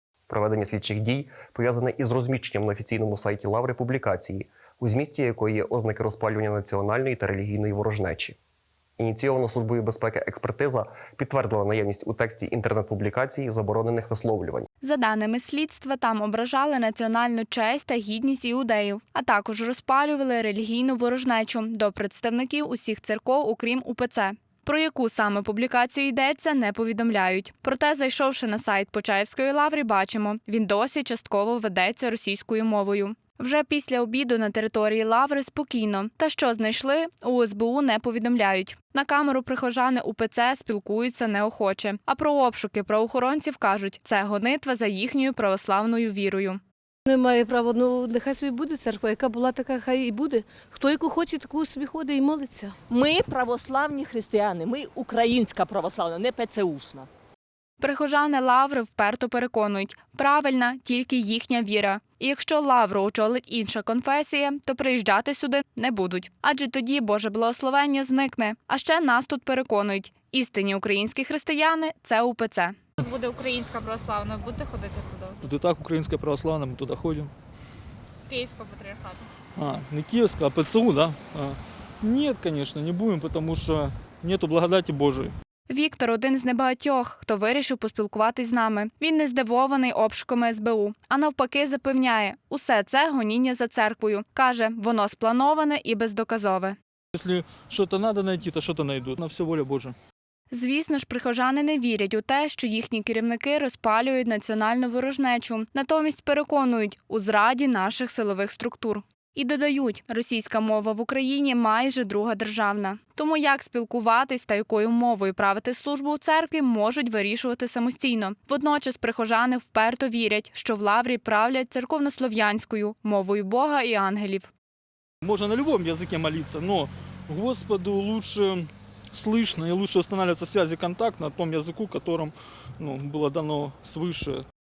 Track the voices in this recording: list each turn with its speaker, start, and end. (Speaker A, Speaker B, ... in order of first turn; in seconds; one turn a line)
Speaker A: 0.3-8.3
Speaker A: 9.0-14.7
Speaker B: 14.8-46.6
Speaker C: 47.1-52.8
Speaker D: 52.9-57.1
Speaker B: 57.8-72.8
Speaker E: 73.0-75.5
Speaker F: 75.4-77.3
Speaker E: 78.3-79.3
Speaker F: 79.5-85.3
Speaker B: 85.7-96.8
Speaker F: 97.1-99.9
Speaker B: 100.5-124.5
Speaker F: 125.2-134.4